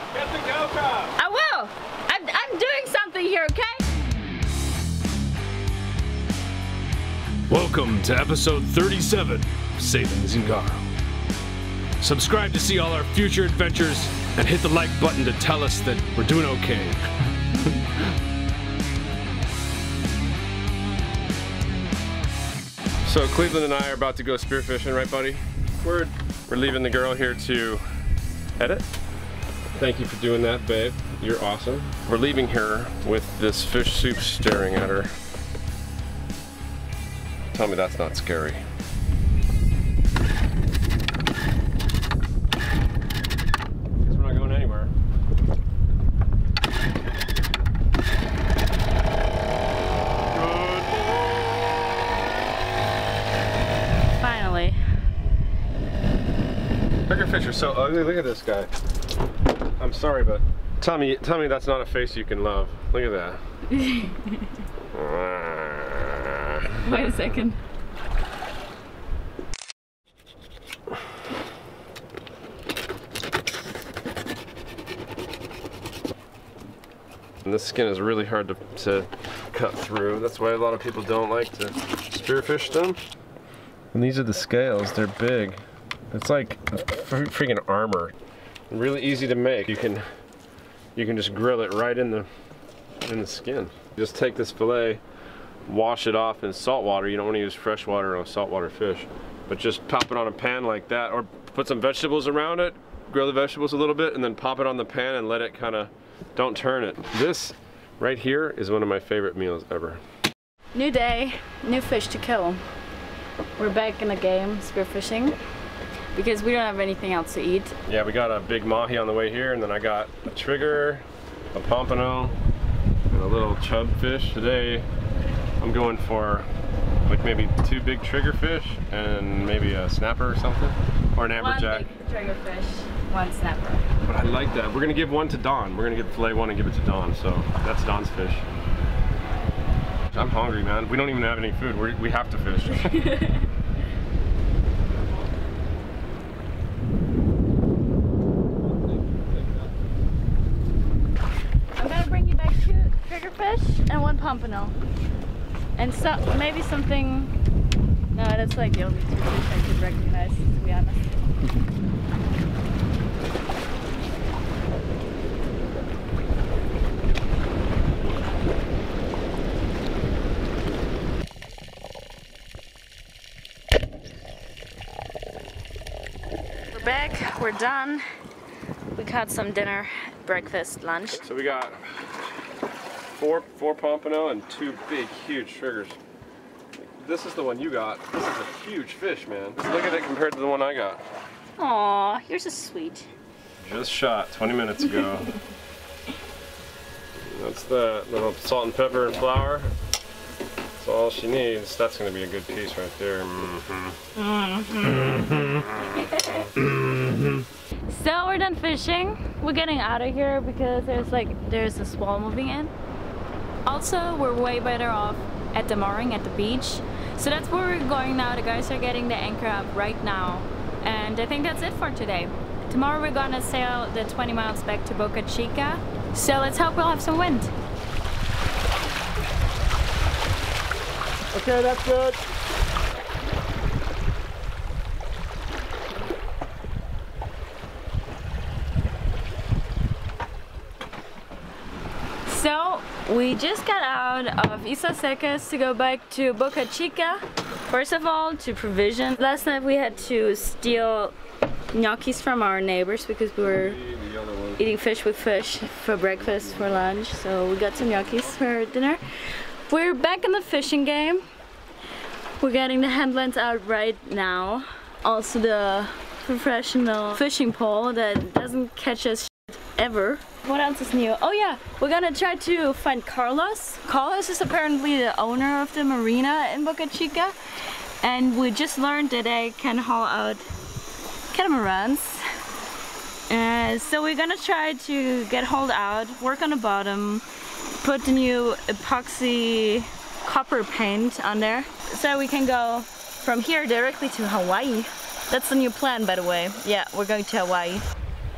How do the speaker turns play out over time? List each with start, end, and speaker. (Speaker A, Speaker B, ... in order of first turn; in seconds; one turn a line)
Speaker A: 0.1-1.1
Speaker B: 1.1-3.8
Speaker A: 7.5-10.8
Speaker A: 12.0-17.0
Speaker C: 23.0-27.9
Speaker C: 28.6-28.9
Speaker C: 29.8-35.1
Speaker C: 37.5-38.6
Speaker C: 44.0-44.9
Speaker C: 50.3-51.5
Speaker B: 54.1-54.8
Speaker C: 57.1-58.7
Speaker C: 59.8-63.4
Speaker B: 63.7-64.6
Speaker C: 64.9-67.0
Speaker B: 66.8-67.6
Speaker C: 77.4-83.0
Speaker C: 83.9-85.6
Speaker C: 86.1-88.1
Speaker C: 88.7-90.0
Speaker C: 91.0-92.3
Speaker C: 93.0-95.0
Speaker C: 95.7-110.0
Speaker B: 110.7-112.6
Speaker B: 113.6-115.4
Speaker B: 116.1-117.8
Speaker C: 117.8-122.3
Speaker C: 123.1-124.9
Speaker C: 125.6-126.5
Speaker C: 127.0-131.8
Speaker B: 131.3-133.8
Speaker C: 134.0-138.4
Speaker C: 140.1-143.1
Speaker B: 142.9-143.4
Speaker C: 148.6-149.7
Speaker B: 151.8-154.7
Speaker B: 155.8-157.3
Speaker B: 158.1-161.2
Speaker B: 176.7-178.0
Speaker B: 178.9-181.2
Speaker C: 181.2-182.1
Speaker C: 183.2-186.0
Speaker C: 186.7-191.0
Speaker B: 191.6-193.1
Speaker C: 193.6-195.3
Speaker C: 197.2-199.7
Speaker C: 200.8-203.9
Speaker B: 204.1-206.5
Speaker C: 205.1-205.6
Speaker C: 206.5-207.3
Speaker B: 207.9-212.7
Speaker B: 213.7-227.5
Speaker C: 231.5-232.2
Speaker B: 242.2-251.1
Speaker C: 249.2-250.8
Speaker B: 251.7-253.8
Speaker C: 253.5-254.6
Speaker B: 254.6-259.0
Speaker C: 256.1-256.8
Speaker B: 259.7-261.2
Speaker B: 262.4-277.3
Speaker B: 278.0-280.5
Speaker B: 281.3-282.2
Speaker B: 283.3-297.9